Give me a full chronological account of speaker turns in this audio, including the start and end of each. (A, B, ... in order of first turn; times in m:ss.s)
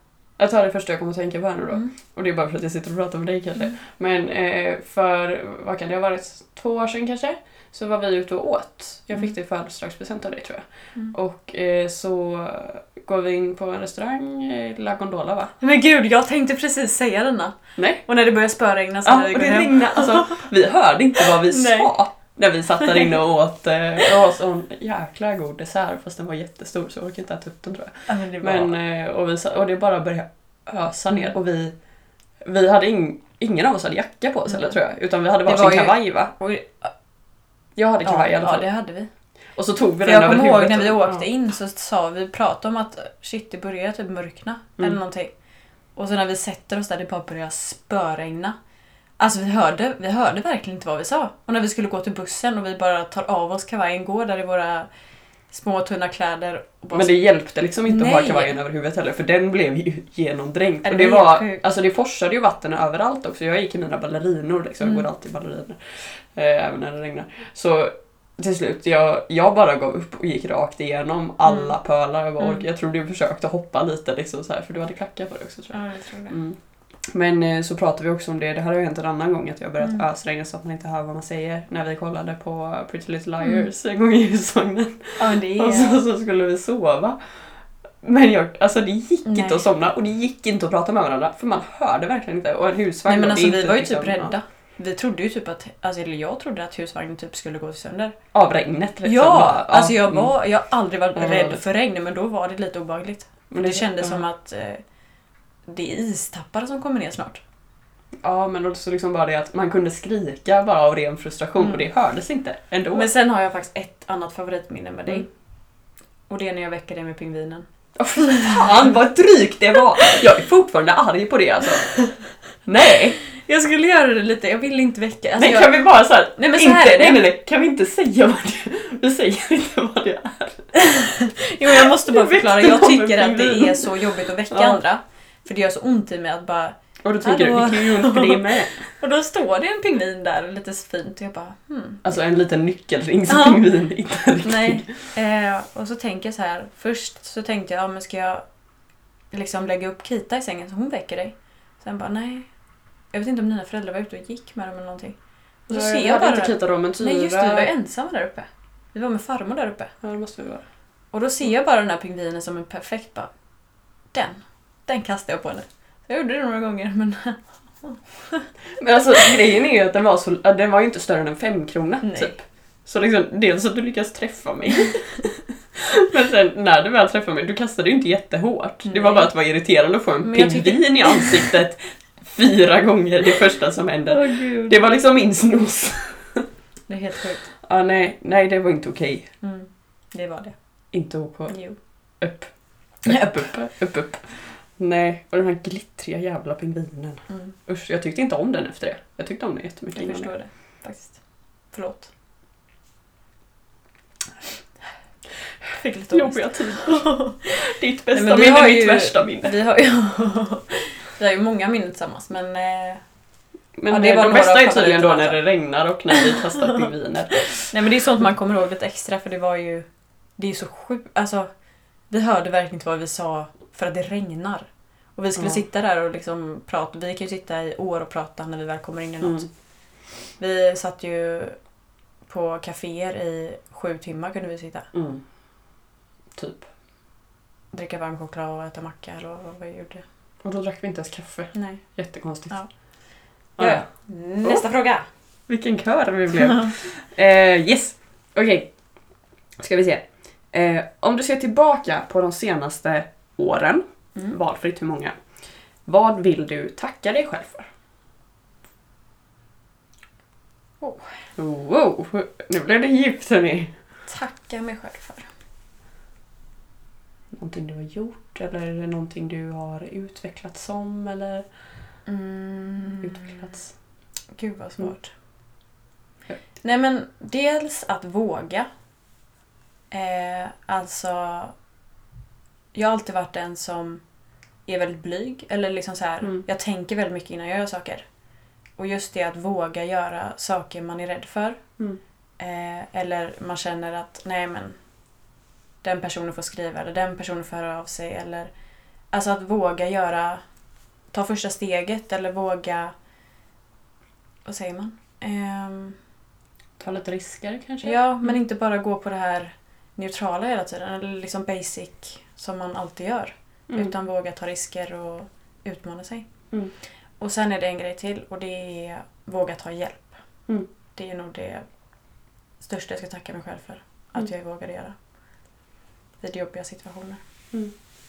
0:00.4-0:15.6 A
0:15.6-0:20.5 B
0:17.8-0:18.0 A
0:19.0-0:31.7 A
0:21.2-0:21.9 B
0:22.8-0:23.1 B
0:28.1-0:28.8 B
0:32.4-0:36.3 A
0:35.4-0:36.9 B
0:37.8-0:38.7 A
0:38.0-0:39.1 B
0:39.6-0:41.2 A
0:40.0-0:45.3 B
0:46.0-0:48.6 B
0:49.2-0:54.9 B
0:55.5-0:57.2 B
0:56.9-1:15.8 A
0:57.9-0:58.6 B
1:00.8-1:01.6 B
1:15.7-1:16.4 B
1:16.3-1:16.6 A
1:17.1-1:27.2 A
1:25.2-1:26.0 B
1:28.0-1:34.3 A
1:29.3-1:29.6 B
1:33.1-1:38.2 B
1:38.3-1:40.3 A
1:39.0-1:44.8 B
1:41.1-1:41.6 A
1:43.5-1:44.2 A
1:45.7-1:47.4 B
1:48.2-1:53.1 A
1:52.9-1:55.3 B
1:56.3-1:58.7 B
1:58.0-2:01.9 A
2:02.6-2:03.2 A
2:03.4-2:05.8 B
2:05.4-2:10.7 A
2:06.4-2:07.3 B
2:10.7-2:22.0 B
2:11.7-2:14.8 A
2:17.0-2:18.9 A
2:22.0-2:24.9 A
2:23.3-2:23.6 B
2:24.4-2:28.4 B
2:29.3-2:32.5 B
2:33.1-2:35.2 B
2:35.7-2:37.7 A
2:35.7-2:39.9 B
2:40.0-2:40.6 A
2:41.1-2:43.3 B
2:44.1-2:48.5 B
2:48.8-3:06.5 A
2:52.0-2:52.3 B
2:58.8-2:59.3 B
3:00.2-3:01.5 B
3:04.1-3:04.8 B
3:06.9-3:07.5 B
3:07.6-3:09.3 A
3:09.4-3:10.6 B
3:10.9-3:11.6 A
3:11.5-3:11.8 B
3:12.2-3:12.5 A
3:13.0-3:20.3 A
3:13.1-3:13.4 B
3:20.0-3:21.2 B
3:21.7-3:22.1 B
3:25.7-3:33.0 B
3:26.1-3:29.6 A
3:33.8-3:37.7 A
3:33.9-3:35.4 B
3:36.1-3:36.4 B
3:37.5-3:39.9 B
3:40.4-3:41.5 B
3:42.1-3:49.5 B
3:45.4-3:45.6 A
3:49.2-3:49.5 A
3:50.4-3:51.6 B
3:52.3-3:54.9 B
3:54.9-3:55.2 A
3:56.4-3:56.7 A
3:57.7-4:00.0 B
4:00.4-4:02.5 A
4:01.5-4:01.8 B
4:03.6-4:03.9 A
4:03.6-4:05.1 B
4:05.5-4:08.7 A
4:09.6-4:15.2 A
4:15.9-4:17.7 A
4:20.8-4:21.2 B
4:21.4-4:23.7 A
4:24.1-4:25.3 B
4:27.3-4:31.4 A
4:32.1-4:33.5 B
4:33.0-4:33.7 A
4:34.4-4:35.1 B
4:36.6-4:38.7 B
4:39.9-4:41.5 B
4:42.7-4:44.0 B
4:44.7-4:48.0 B
4:48.8-4:51.6 B
4:52.4-4:54.8 B
4:55.8-4:58.5 B
4:59.1-5:00.4 B
5:01.1-5:02.9 B
5:04.4-5:06.0 B
5:06.8-5:08.0 A
5:07.8-5:16.3 B
5:17.2-5:20.2 B
5:20.9-5:21.6 B
5:22.6-5:25.0 B
5:26.2-5:27.2 B